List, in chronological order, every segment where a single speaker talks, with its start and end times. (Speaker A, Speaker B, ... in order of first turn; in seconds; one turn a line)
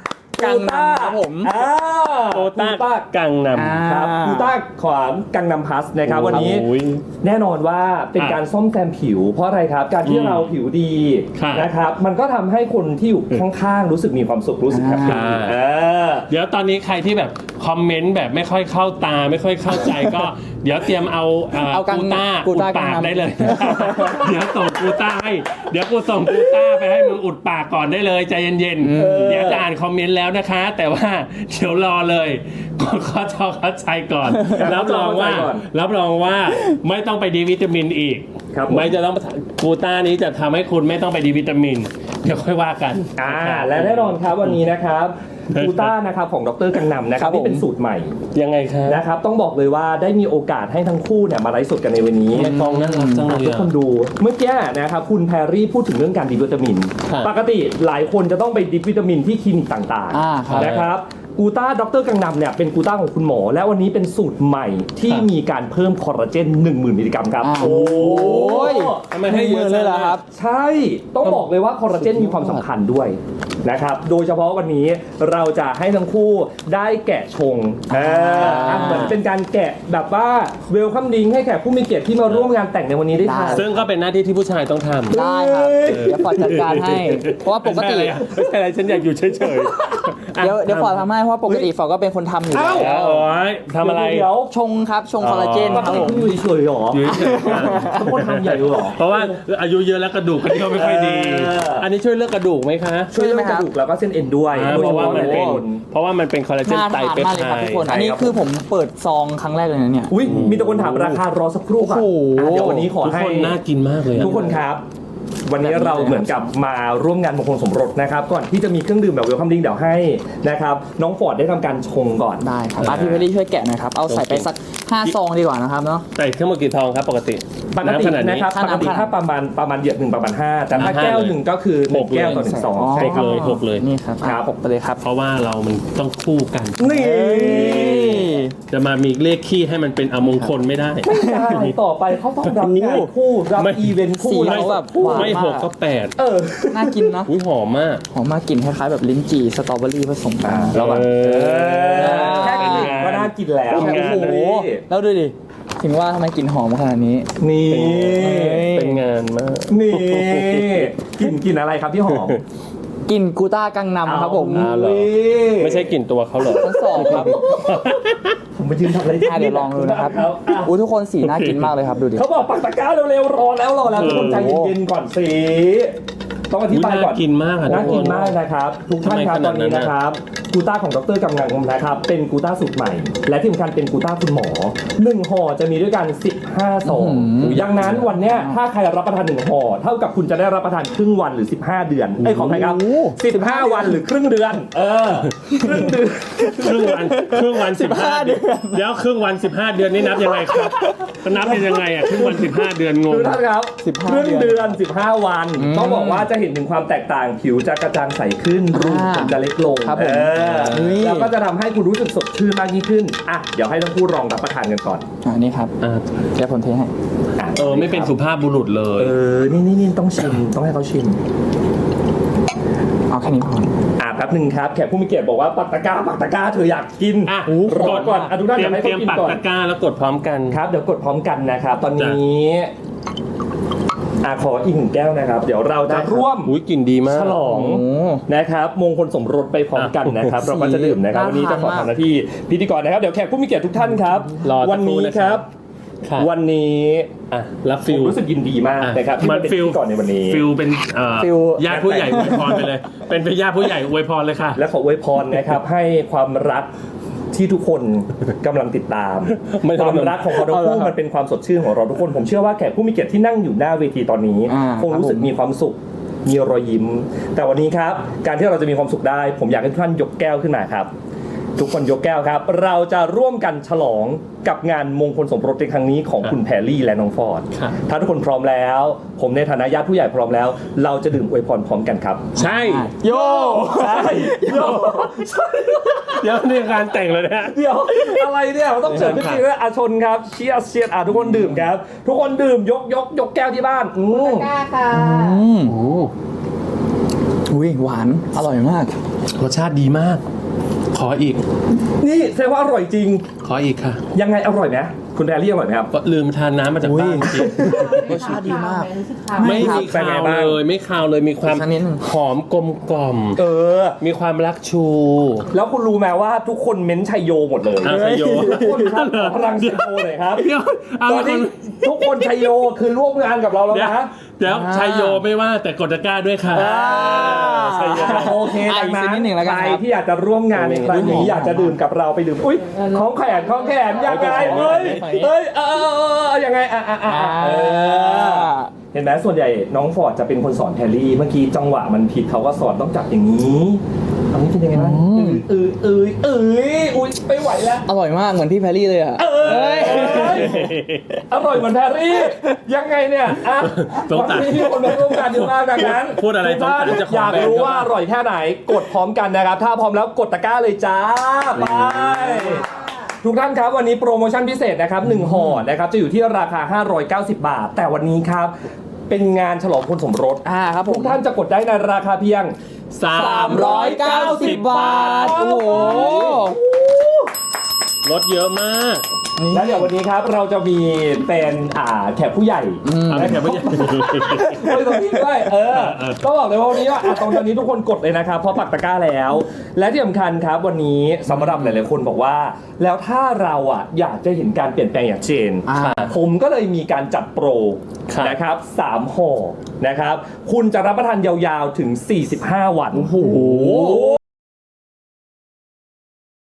Speaker A: 0.3-3.1
Speaker B: 0.4-1.5
Speaker C: 2.3-3.8
Speaker B: 3.5-4.5
Speaker A: 3.8-6.7
Speaker C: 6.0-6.9
Speaker B: 6.3-7.0
Speaker A: 7.2-16.3
Speaker C: 10.0-10.5
Speaker C: 11.3-11.7
Speaker B: 14.7-15.4
Speaker C: 15.0-15.6
Speaker C: 16.3-44.7
Speaker B: 21.6-24.3
Speaker B: 28.8-29.3
Speaker A: 28.9-29.7
Speaker A: 34.5-35.6
Speaker A: 38.5-38.9
Speaker A: 43.2-48.1
Speaker C: 45.5-45.9
Speaker B: 47.1-47.6
Speaker C: 48.3-49.0
Speaker A: 48.9-52.5
Speaker C: 52.3-53.7
Speaker B: 52.3-53.3
Speaker A: 53.2-83.7
Speaker B: 60.1-60.8
Speaker C: 60.5-60.9
Speaker B: 67.4-70.2
Speaker C: 67.7-70.2
Speaker C: 71.2-71.5
Speaker B: 71.9-72.6
Speaker B: 77.9-79.2
Speaker C: 78.4-79.2
Speaker B: 83.1-83.7
Speaker C: 83.5-85.2
Speaker A: 85.1-86.6
Speaker B: 85.1-88.2
Speaker C: 85.8-91.1
Speaker B: 90.4-93.3
Speaker A: 91.4-91.7
Speaker A: 92.5-93.0
Speaker C: 92.7-94.3
Speaker A: 93.8-94.5
Speaker B: 94.5-96.2
Speaker C: 95.2-96.2
Speaker A: 95.7-99.4
Speaker C: 96.9-103.1
Speaker B: 97.1-98.0
Speaker A: 100.7-101.9
Speaker A: 103.1-105.8
Speaker B: 103.1-103.7
Speaker C: 104.5-107.9
Speaker B: 104.7-105.6
Speaker B: 106.6-110.5
Speaker A: 107.8-108.4
Speaker A: 110.1-113.6
Speaker C: 110.2-111.2
Speaker B: 111.8-112.9
Speaker C: 112.5-114.5
Speaker B: 114.2-114.6
Speaker A: 114.2-114.8
Speaker A: 115.5-123.2
Speaker B: 115.6-116.5
Speaker B: 122.4-126.0
Speaker C: 122.8-123.2
Speaker C: 124.0-124.5
Speaker C: 126.1-128.5
Speaker A: 127.7-133.4
Speaker B: 128.5-129.1
Speaker C: 130.7-131.4
Speaker C: 131.9-133.9
Speaker B: 132.3-135.0
Speaker A: 134.2-134.5
Speaker C: 135.0-136.8
Speaker A: 136.8-138.4
Speaker B: 136.8-138.5
Speaker C: 138.7-141.8
Speaker B: 140.2-140.5
Speaker A: 141.0-145.4
Speaker B: 141.1-141.4
Speaker B: 142.6-143.1
Speaker C: 143.6-146.2
Speaker B: 144.2-145.7
Speaker A: 146.2-147.2
Speaker B: 146.7-147.3
Speaker C: 147.2-148.0
Speaker B: 148.1-151.0
Speaker A: 150.4-154.8
Speaker C: 150.7-154.4
Speaker B: 151.9-153.1
Speaker B: 153.7-157.3
Speaker A: 157.4-158.8
Speaker C: 157.7-161.1
Speaker B: 158.2-159.0
Speaker A: 159.7-162.4
Speaker C: 162.1-162.4
Speaker B: 163.1-164.7
Speaker A: 164.0-165.9
Speaker C: 164.5-168.3
Speaker B: 166.5-167.4
Speaker A: 166.6-168.0
Speaker A: 168.6-170.7
Speaker B: 169.2-172.3
Speaker C: 171.2-171.7
Speaker A: 172.1-175.9
Speaker B: 173.9-174.7
Speaker C: 174.0-174.5
Speaker A: 176.5-196.9
Speaker C: 176.7-178.4
Speaker B: 177.7-178.2
Speaker C: 179.0-179.9
Speaker B: 186.8-187.6
Speaker C: 187.5-188.1
Speaker B: 188.2-188.6
Speaker B: 192.2-194.0
Speaker C: 196.5-203.4
Speaker B: 196.7-198.9
Speaker B: 200.1-202.5
Speaker A: 203.1-215.0
Speaker B: 203.8-204.8
Speaker B: 205.5-206.3
Speaker B: 208.7-211.3
Speaker C: 210.4-210.9
Speaker B: 215.2-215.7
Speaker C: 215.8-216.1
Speaker B: 216.3-216.9
Speaker A: 217.3-218.1
Speaker C: 217.5-219.1
Speaker A: 219.0-221.2
Speaker B: 223.1-223.7
Speaker A: 224.0-229.4
Speaker C: 227.3-230.6
Speaker B: 227.5-228.3
Speaker A: 230.5-232.7
Speaker C: 231.9-232.2
Speaker A: 234.2-236.5
Speaker C: 235.9-237.4
Speaker A: 237.0-245.5
Speaker B: 237.4-238.2
Speaker C: 239.7-240.3
Speaker B: 240.4-241.9
Speaker C: 244.4-245.4
Speaker A: 246.2-247.1
Speaker C: 247.3-248.2
Speaker A: 247.8-250.4
Speaker C: 248.8-254.6
Speaker B: 251.1-252.7
Speaker A: 251.6-252.4
Speaker A: 254.6-256.7
Speaker A: 257.3-270.9
Speaker C: 259.4-260.3
Speaker B: 260.4-260.9
Speaker B: 264.5-265.3
Speaker A: 271.6-282.2
Speaker C: 282.4-283.0
Speaker B: 282.4-285.1
Speaker A: 283.0-286.2
Speaker C: 284.5-285.0
Speaker C: 285.9-287.6
Speaker A: 287.4-294.5
Speaker B: 288.8-289.4
Speaker B: 291.3-291.6
Speaker D: 294.1-295.4
Speaker B: 294.9-295.7
Speaker C: 295.6-296.1
Speaker B: 297.5-299.0
Speaker C: 299.4-300.2
Speaker C: 300.9-301.4
Speaker A: 302.0-303.2
Speaker C: 303.4-304.0
Speaker A: 304.1-305.9
Speaker C: 305.9-308.3
Speaker B: 306.8-309.9
Speaker D: 307.6-309.7
Speaker C: 309.4-313.4
Speaker A: 309.6-310.6
Speaker B: 311.4-312.2
Speaker A: 313.3-314.0
Speaker C: 314.0-315.5
Speaker A: 315.5-320.5
Speaker C: 317.8-322.4
Speaker B: 317.8-319.2
Speaker A: 321.0-324.1
Speaker C: 323.7-328.5
Speaker B: 324.4-325.2
Speaker B: 326.5-329.8
Speaker A: 327.9-347.8
Speaker B: 330.6-331.8
Speaker C: 330.6-331.4
Speaker D: 332.6-334.2
Speaker B: 334.0-335.3
Speaker C: 334.2-335.0
Speaker B: 337.0-338.7
Speaker B: 344.7-345.4
Speaker B: 347.8-350.8
Speaker A: 349.2-350.6
Speaker C: 349.8-351.0
Speaker A: 351.3-368.5
Speaker C: 353.6-357.9
Speaker C: 361.5-361.9
Speaker B: 362.1-362.5
Speaker A: 369.1-372.5
Speaker B: 370.4-371.2
Speaker C: 372.9-376.4
Speaker B: 373.1-376.6
Speaker A: 373.4-377.3
Speaker C: 378.0-379.0
Speaker B: 379.4-379.9
Speaker A: 379.5-403.2
Speaker B: 382.8-385.0
Speaker C: 383.1-384.6
Speaker C: 385.7-386.2
Speaker B: 391.3-391.7
Speaker B: 395.6-396.1
Speaker C: 395.8-396.1
Speaker C: 398.1-398.4
Speaker B: 403.0-404.1
Speaker C: 403.1-404.1
Speaker A: 403.8-404.0